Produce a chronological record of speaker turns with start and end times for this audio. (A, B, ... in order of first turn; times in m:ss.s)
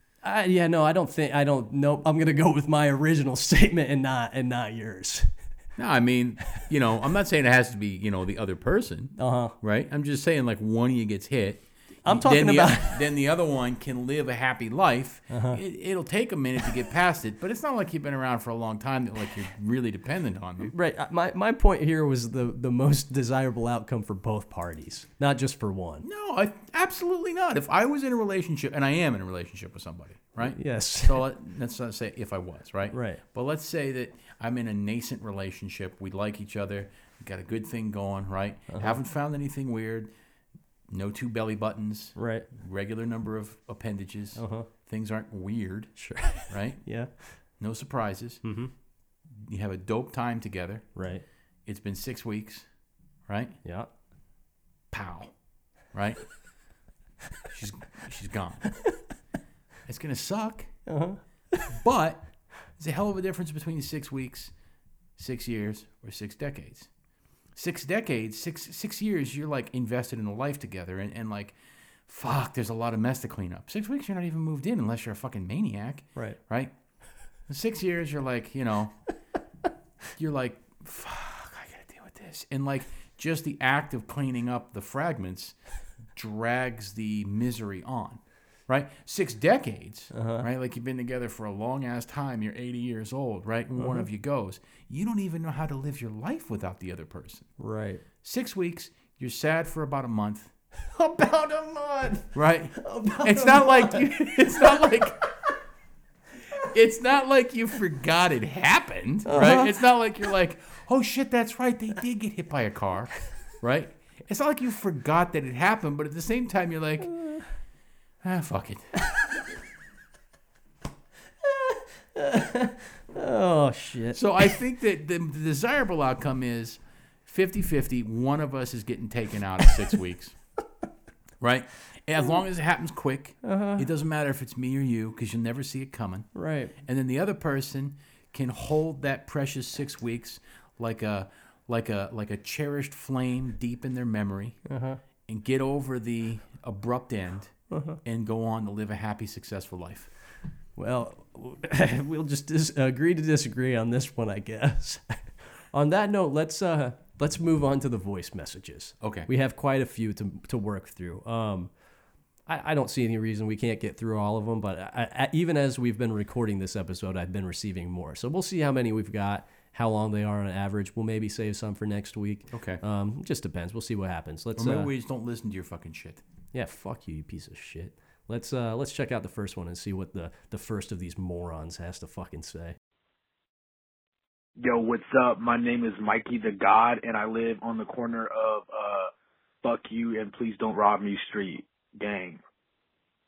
0:00.2-0:05.3 A
0:05.8-0:20.7 B
0:09.2-0:09.6 A
0:12.0-0:13.0 A
0:15.3-0:15.6 A
0:20.6-0:26.0 A
0:26.0-0:40.1 B
0:30.4-0:31.3 A
0:32.9-0:33.2 A
0:38.7-0:39.0 A
0:40.9-0:46.8 B
0:42.2-0:42.5 A
0:44.4-0:44.7 A
0:46.0-0:47.1 A
0:47.6-0:48.4 B
0:48.4-0:48.7 A
0:49.3-0:50.9 B
0:50.9-0:51.2 A
0:51.6-0:52.6 B
0:53.3-0:53.6 B
0:53.6-0:53.9 A
0:54.9-0:55.3 B
0:55.9-0:56.3 B
0:57.5-0:58.6 B
0:59.9-1:00.8 B
1:00.9-1:01.7 A
1:01.7-1:04.5 B
1:05.2-1:06.9 B
1:07.5-1:16.7 B
1:17.5-1:19.0 B
1:20.2-1:25.6 B
1:26.1-1:37.5 B
1:30.1-1:30.4 A
1:33.8-1:34.1 A
1:37.6-1:38.0 A
1:38.2-1:40.5 B
1:40.9-1:45.2 A
1:42.3-1:45.2 B
1:46.7-1:57.2 B
1:49.3-1:49.8 A
1:57.1-1:57.4 A
1:58.2-1:58.9 B
2:01.4-2:04.6 A
2:04.1-2:10.4 B
2:11.4-2:16.3 B
2:13.4-2:13.9 A
2:16.4-2:16.7 A
2:16.8-2:24.6 B
2:24.6-2:25.0 A
2:25.3-2:30.1 B
2:27.7-2:28.0 A
2:30.8-2:41.7 A
2:39.0-2:39.3 B
2:42.5-2:54.9 A
2:52.5-2:52.8 B
2:54.6-2:56.2 B
2:56.5-3:02.8 A
3:04.6-3:09.1 C
3:09.6-3:12.4 C